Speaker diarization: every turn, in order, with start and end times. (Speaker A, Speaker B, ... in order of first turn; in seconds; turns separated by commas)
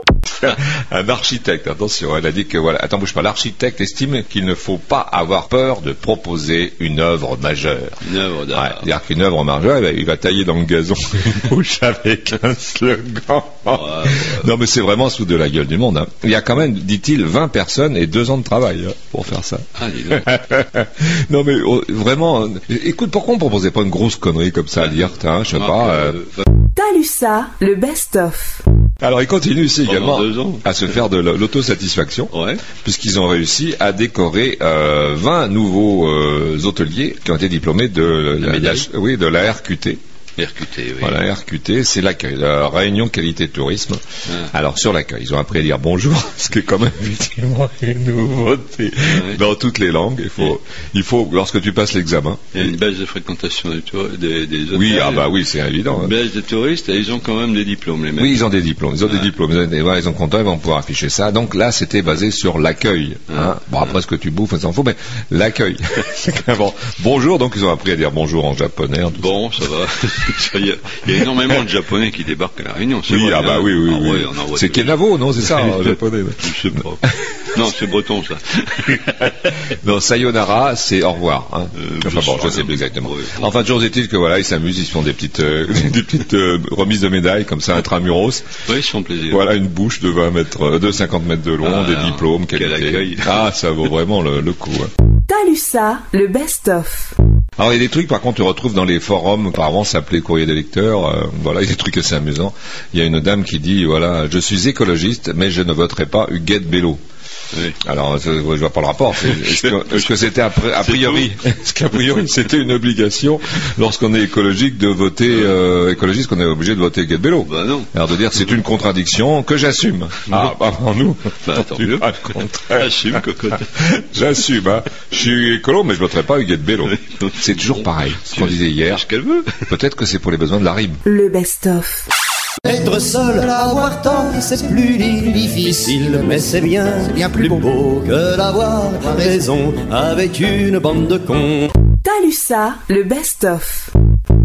Speaker A: 0.4-26.2, Speaker B: 8.0-8.9, Speaker B: 13.7-14.5, Speaker B: 19.8-20.3, Speaker B: 25.6-26.3, Speaker C: 26.8-28.6, Speaker A: 29.0-40.0, Speaker B: 29.8-30.6, Speaker B: 32.3-32.6, Speaker B: 38.4-38.9, Speaker B: 40.4-41.2, Speaker A: 41.0-52.7, Speaker B: 49.0-49.4, Speaker B: 52.5-55.3, Speaker A: 54.7-56.1, Speaker B: 55.9-58.5, Speaker A: 58.2-69.4, Speaker B: 69.2-79.5, Speaker A: 73.1-76.5, Speaker A: 79.4-88.6, Speaker B: 81.8-83.5, Speaker B: 88.7-89.5, Speaker A: 89.3-94.9, Speaker B: 91.6-93.4, Speaker C: 95.3-97.1, Speaker A: 97.6-107.0, Speaker A: 107.8-129.0, Speaker B: 109.4-109.9, Speaker B: 110.8-111.2, Speaker B: 117.4-117.9, Speaker B: 121.5-122.1, Speaker B: 122.7-123.7, Speaker B: 127.1-127.8, Speaker B: 128.3-129.7, Speaker A: 129.6-131.0, Speaker C: 131.0-132.1, Speaker D: 132.6-141.7, Speaker C: 142.0-143.9